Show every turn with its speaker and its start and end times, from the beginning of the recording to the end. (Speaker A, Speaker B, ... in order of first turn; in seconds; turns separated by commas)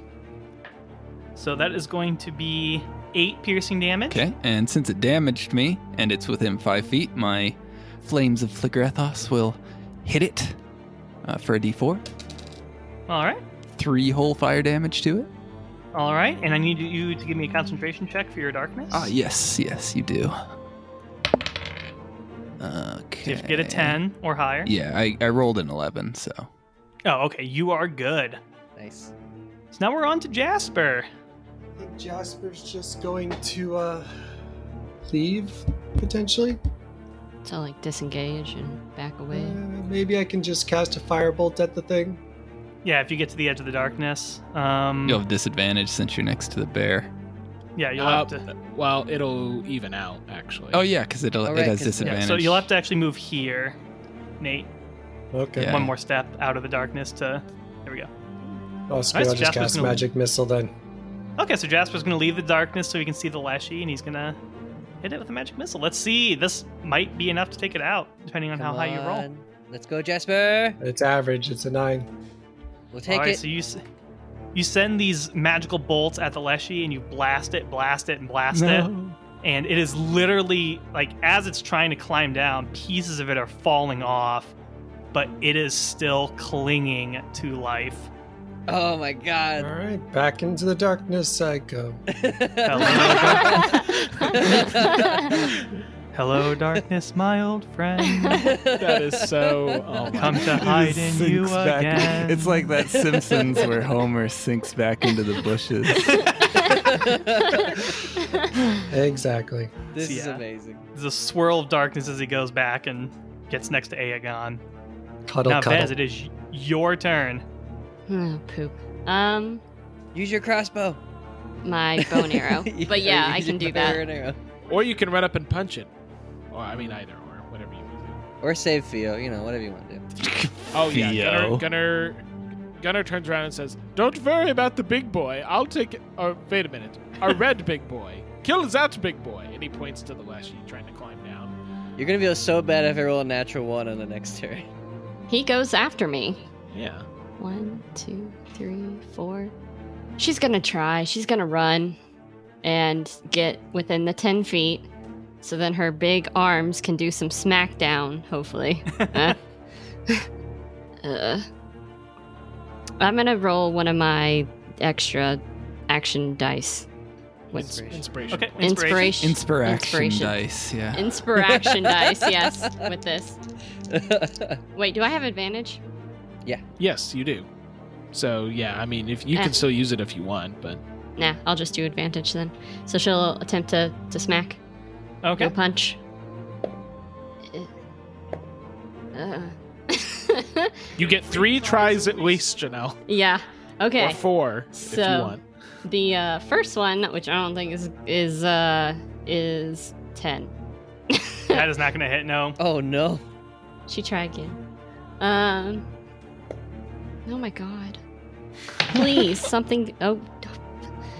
Speaker A: 1.4-4.2, Speaker B: 4.1-10.6, Speaker B: 11.2-12.0, Speaker A: 13.1-13.4, Speaker B: 13.8-15.3, Speaker A: 15.9-19.1, Speaker B: 18.9-20.4, Speaker B: 22.6-24.0, Speaker A: 23.2-24.7, Speaker B: 24.6-26.5, Speaker A: 27.0-28.4, Speaker C: 28.8-29.1, Speaker A: 29.7-31.1, Speaker D: 31.8-34.1, Speaker D: 35.1-36.6, Speaker E: 37.4-39.6, Speaker D: 39.3-42.2, Speaker A: 42.8-45.2, Speaker B: 45.0-47.1, Speaker A: 47.8-48.5, Speaker F: 48.0-50.8, Speaker B: 50.7-52.7, Speaker C: 51.5-52.2, Speaker A: 52.0-53.8, Speaker A: 54.4-54.7, Speaker D: 55.3-55.7, Speaker B: 55.6-55.9, Speaker A: 55.6-58.1, Speaker D: 58.9-60.7, Speaker A: 59.1-60.0, Speaker A: 61.4-64.4, Speaker A: 65.0-69.2, Speaker C: 68.5-70.8, Speaker D: 70.8-72.1, Speaker C: 72.9-73.4, Speaker A: 73.1-73.8, Speaker A: 74.5-78.9, Speaker B: 78.5-79.2, Speaker A: 79.4-84.5, Speaker A: 85.1-88.1, Speaker C: 88.7-89.7, Speaker D: 89.6-92.0, Speaker C: 92.1-95.6, Speaker A: 92.6-93.8, Speaker E: 93.2-95.3, Speaker A: 96.1-98.5, Speaker C: 98.3-100.2, Speaker F: 98.8-100.6, Speaker A: 100.1-102.6, Speaker B: 100.5-106.3, Speaker C: 102.9-103.8, Speaker E: 106.1-108.8, Speaker C: 106.5-107.8, Speaker D: 108.9-109.8, Speaker C: 109.9-110.8, Speaker A: 110.0-110.4, Speaker A: 110.9-114.6, Speaker D: 115.3-115.9, Speaker A: 115.4-117.4, Speaker E: 118.1-119.6, Speaker C: 120.1-121.0, Speaker E: 121.6-124.0, Speaker C: 122.0-124.4, Speaker F: 124.7-125.9, Speaker F: 126.5-128.2, Speaker C: 128.4-130.0, Speaker B: 130.2-131.6, Speaker F: 130.7-132.2, Speaker F: 132.8-141.5, Speaker C: 142.0-144.7, Speaker E: 145.3-146.4, Speaker F: 146.7-147.1, Speaker E: 147.4-149.5, Speaker E: 150.2-152.0, Speaker E: 152.6-154.8, Speaker E: 155.4-159.4, Speaker A: 159.0-159.3, Speaker E: 161.0-161.4, Speaker E: 163.0-166.9, Speaker E: 167.5-167.8, Speaker F: 167.5-169.2, Speaker C: 167.5-168.0, Speaker A: 168.3-169.1, Speaker E: 168.6-170.4, Speaker B: 169.2-171.1, Speaker E: 170.9-173.4, Speaker C: 171.3-172.9, Speaker C: 173.9-174.6, Speaker E: 174.7-175.8, Speaker F: 176.8-177.5, Speaker F: 178.1-180.8, Speaker E: 179.3-179.6, Speaker E: 181.2-184.6, Speaker A: 185.2-185.5, Speaker E: 185.4-186.0, Speaker E: 189.1-190.9, Speaker F: 191.0-193.0, Speaker E: 193.1-200.5, Speaker F: 194.0-195.4, Speaker E: 201.1-201.6, Speaker A: 201.5-202.6, Speaker C: 202.6-203.2, Speaker E: 203.9-204.6, Speaker E: 205.2-205.8, Speaker E: 207.2-208.0, Speaker E: 208.8-210.6